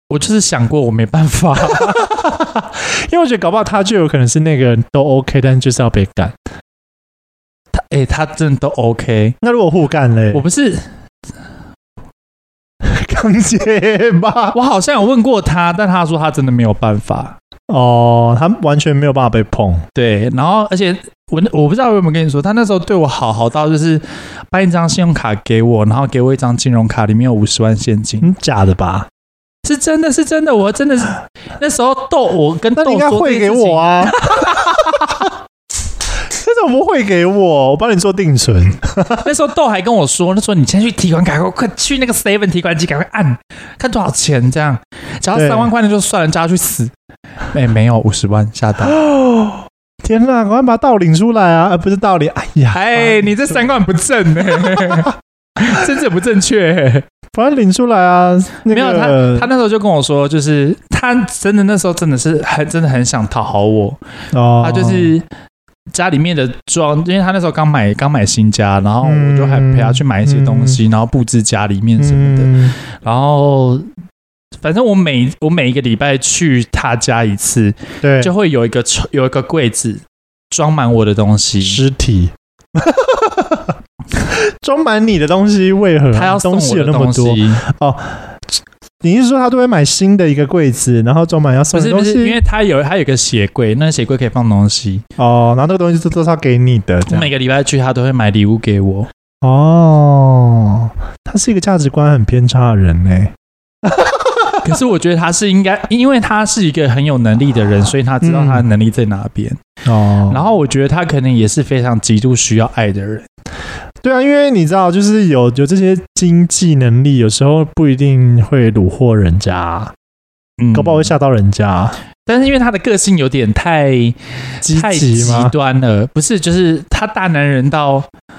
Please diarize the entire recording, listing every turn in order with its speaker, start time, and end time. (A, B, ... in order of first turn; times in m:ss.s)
0:00.1-0:02.1 A
0:01.7-0:06.3 B
0:07.7-0:09.4 A
0:09.4-0:10.4 B
0:10.3-0:10.9 A
0:12.8-0:14.6 B
0:14.5-0:17.4 A
0:17.7-0:19.8 B
0:19.9-0:28.3 A
0:28.2-0:29.1 B
0:29.6-0:35.1 A
0:32.8-0:35.3 B
0:36.3-0:39.3 B
0:39.2-0:46.9 A
0:45.3-0:45.7 B
0:47.5-0:49.0 A
0:48.8-0:53.6 B
0:52.7-0:57.0 A
0:57.3-0:59.5 B
0:58.7-1:04.0 A
1:04.3-1:05.1 B
1:04.6-1:05.2 A
1:05.9-1:13.9 A
1:09.0-1:10.8 B
1:12.0-1:12.8 B
1:14.6-1:21.8 A
1:18.0-1:18.3 B
1:21.6-1:32.4 B
1:26.1-1:27.6 A
1:31.7-1:35.0 A
1:35.2-1:37.3 B
1:37.1-1:39.1 A
1:39.4-1:44.6 B
1:44.6-1:49.6 A
1:48.2-1:48.6 B
1:49.8-1:50.4 B
1:50.3-1:53.3 A
1:54.0-1:59.9 B
2:00.6-2:01.1 A
2:00.7-2:02.0 B
2:02.2-2:08.1 A
2:04.6-2:05.5 B